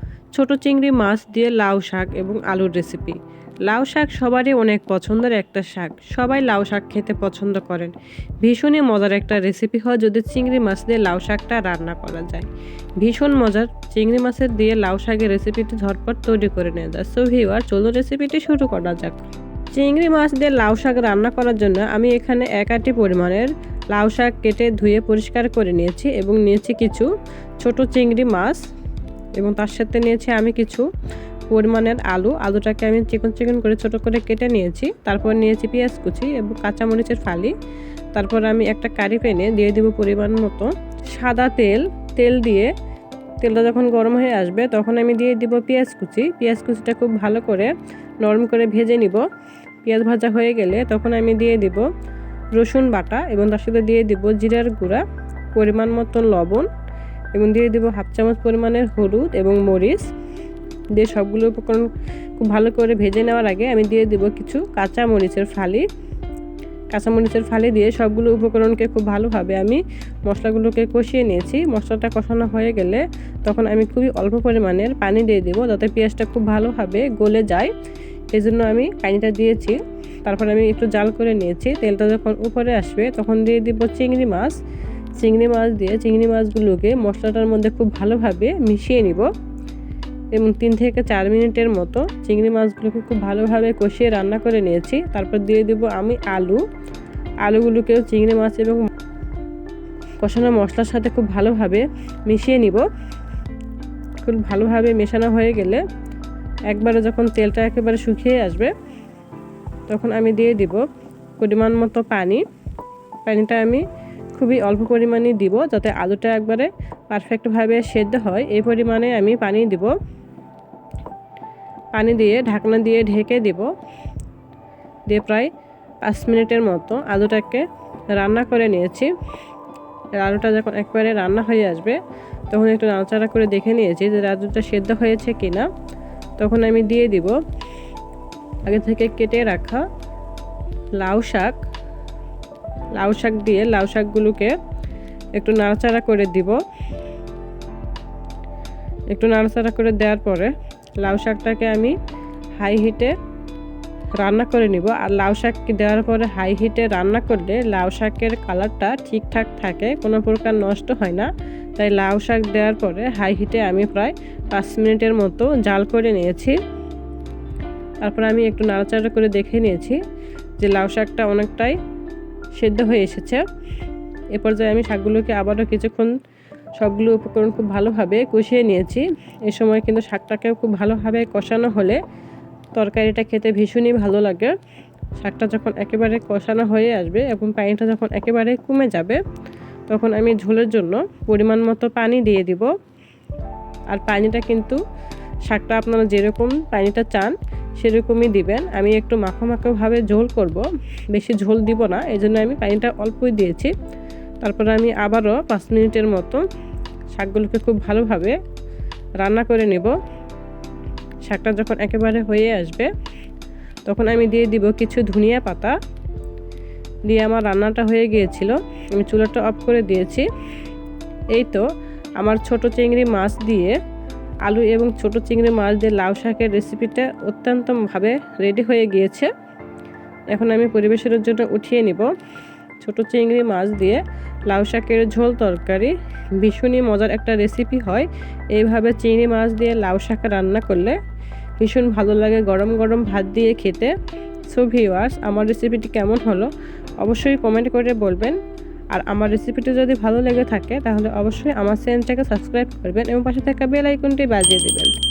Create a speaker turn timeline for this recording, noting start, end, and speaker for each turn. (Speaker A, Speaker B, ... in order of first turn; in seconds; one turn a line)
Speaker A: 0.3-12.5
Speaker A: 13.0-28.6
Speaker A: 29.4-30.9
Speaker A: 31.5-37.5
Speaker A: 38.1-42.7
Speaker A: 43.4-47.7
Speaker A: 48.2-49.2
Speaker A: 49.8-51.8
Speaker A: 52.5-55.0
Speaker A: 55.5-56.7
Speaker A: 57.3-60.1
Speaker A: 61.0-61.9
Speaker A: 62.4-65.8
Speaker A: 66.9-77.7
Speaker A: 78.3-84.6
Speaker A: 85.2-89.3
Speaker A: 90.3-96.6
Speaker A: 97.4-98.9
Speaker A: 100.2-102.8
Speaker A: 104.2-105.8
Speaker A: 106.7-108.7
Speaker A: 109.9-110.8
Speaker A: 111.4-112.4
Speaker A: 113.2-113.8
Speaker A: 114.3-119.9
Speaker A: 121.9-123.7
Speaker A: 125.1-125.5
Speaker A: 126.0-129.1
Speaker A: 130.2-132.0
Speaker A: 132.5-135.7
Speaker A: 136.4-137.4
Speaker A: 138.7-139.8
Speaker A: 141.0-141.6
Speaker A: 143.0-144.5
Speaker A: 145.3-146.6
Speaker A: 149.1-151.9
Speaker A: 152.6-153.1
Speaker A: 154.2-166.6
Speaker A: 168.0-170.0
Speaker A: 170.6-171.8
Speaker A: 172.6-173.4
Speaker A: 174.3-176.1
Speaker A: 176.8-182.0
Speaker A: 182.8-184.5
Speaker A: 185.2-189.2
Speaker A: 189.9-192.7
Speaker A: 193.9-194.8
Speaker A: 195.5-203.7
Speaker A: 204.4-206.4
Speaker A: 207.1-208.4
Speaker A: 209.2-209.9
Speaker A: 211.2-212.9
Speaker A: 213.8-215.8
Speaker A: 217.1-220.2
Speaker A: 221.3-221.7
Speaker A: 222.2-223.8
Speaker A: 224.4-229.3
Speaker A: 230.3-232.1
Speaker A: 232.8-241.0
Speaker A: 241.6-243.9
Speaker A: 244.5-246.5
Speaker A: 247.0-248.4
Speaker A: 248.9-254.9